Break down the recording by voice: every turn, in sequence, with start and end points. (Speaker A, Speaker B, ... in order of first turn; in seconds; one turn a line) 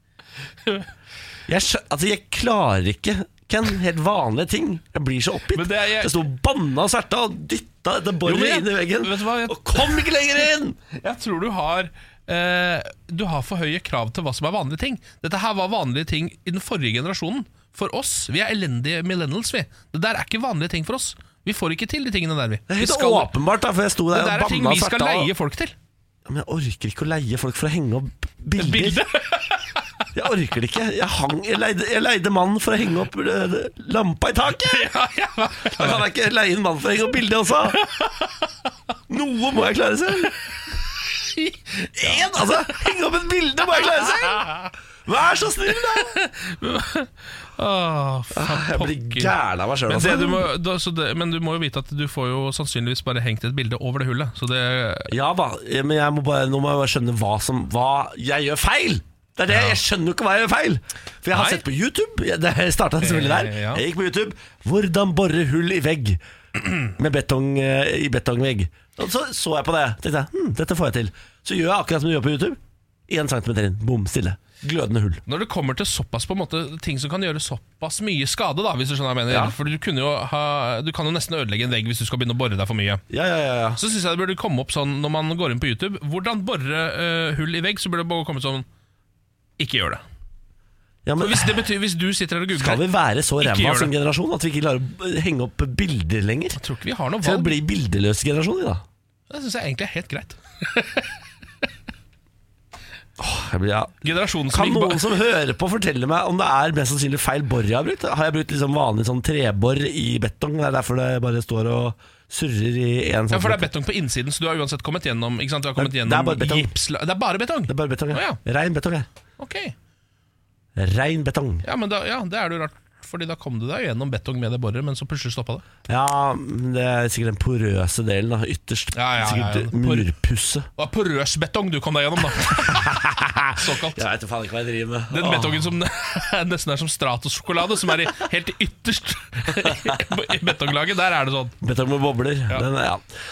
Speaker A: 1.5-10.8
Speaker B: 5.5-6.2
Speaker B: 8.2-10.1
Speaker B: 10.9-23.3
Speaker A: 22.7-25.3
Speaker B: 24.1-25.7
Speaker A: 26.2-29.0
Speaker B: 28.6-29.8
Speaker A: 30.1-34.9
Speaker B: 34.5-36.0
Speaker A: 35.6-37.8
Speaker B: 37.7-38.3
Speaker A: 39.1-40.3
Speaker B: 41.0-42.8
Speaker A: 42.0-44.5
Speaker A: 45.0-46.2
Speaker B: 45.9-49.3
Speaker A: 48.3-50.5
Speaker B: 49.9-55.1
Speaker A: 55.1-66.2
Speaker B: 59.5-59.8
Speaker B: 61.3-61.6
Speaker B: 63.0-63.8
Speaker A: 66.9-75.2
Speaker B: 75.3-83.0
Speaker A: 79.3-79.5
Speaker A: 83.1-83.8
Speaker B: 83.8-88.7
Speaker B: 89.6-90.0
Speaker A: 91.0-91.6
Speaker B: 91.2-92.8
Speaker A: 92.5-96.6
Speaker B: 93.4-93.9
Speaker B: 96.5-97.6
Speaker A: 97.2-98.8
Speaker B: 99.3-101.1
Speaker A: 103.2-113.7
Speaker B: 104.0-105.0
Speaker B: 113.3-118.4
Speaker A: 115.8-116.7
Speaker A: 117.7-119.1
Speaker B: 119.4-119.7
Speaker A: 120.8-121.6
Speaker B: 121.6-125.6
Speaker A: 125.9-130.7
Speaker B: 128.9-130.1
Speaker B: 130.8-134.1
Speaker A: 132.6-135.7
Speaker B: 135.1-141.6
Speaker A: 139.7-139.9
Speaker A: 141.6-143.1